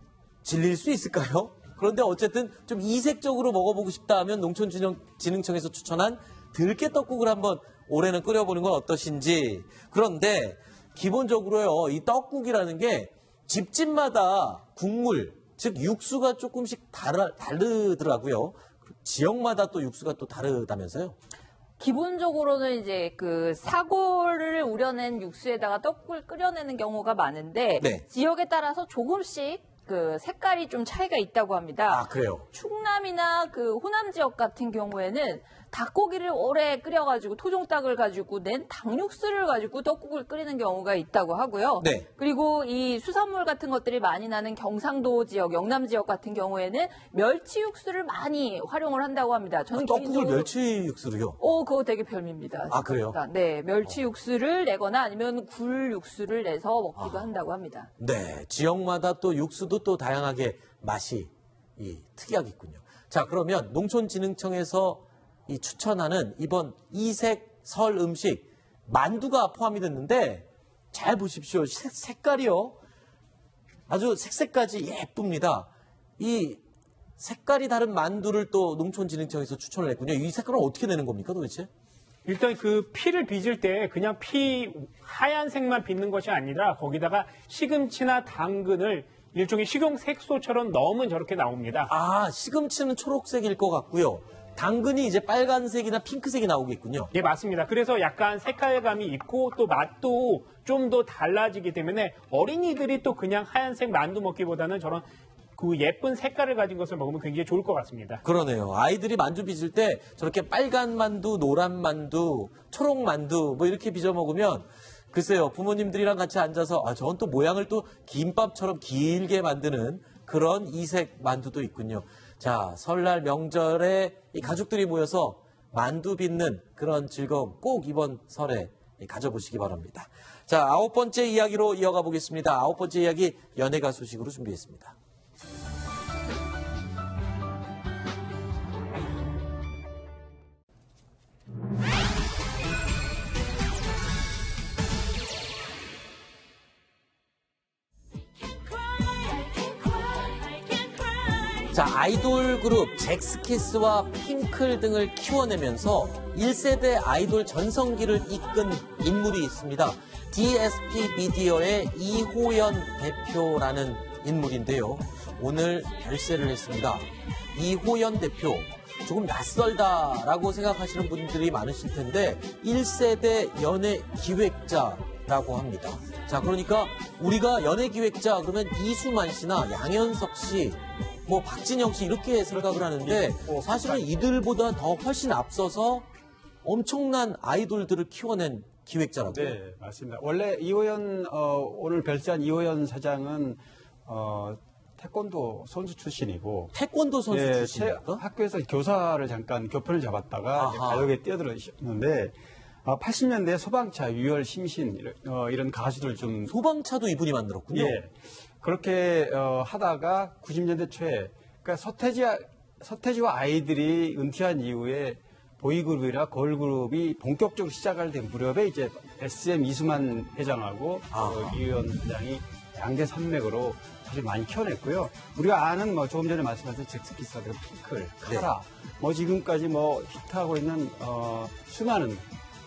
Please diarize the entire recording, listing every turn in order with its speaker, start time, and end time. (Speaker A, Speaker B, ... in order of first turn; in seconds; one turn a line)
Speaker A: 0.4-21.2
Speaker B: 21.8-50.5
Speaker A: 27.8-28.1
Speaker A: 31.9-32.5
Speaker A: 41.8-42.1
Speaker A: 49.8-51.4
Speaker B: 51.4-57.9
Speaker A: 52.7-53.2
Speaker A: 58.0-72.8
Speaker A: 73.9-76.6
Speaker A: 77.2-81.7
Speaker C: 82.2-91.9
Speaker A: 92.0-97.0
Speaker C: 97.1-105.0
Speaker C: 105.6-108.2
Speaker A: 108.2-135.0
Speaker A: 151.9-186.1
Speaker D: 182.5-184.2
Speaker A: 186.6-189.5
Speaker D: 189.3-196.7
Speaker A: 196.7-198.2
Speaker D: 197.3-206.5
Speaker A: 200.6-201.1
Speaker A: 206.5-208.0
Speaker D: 207.7-232.3
Speaker A: 221.1-221.5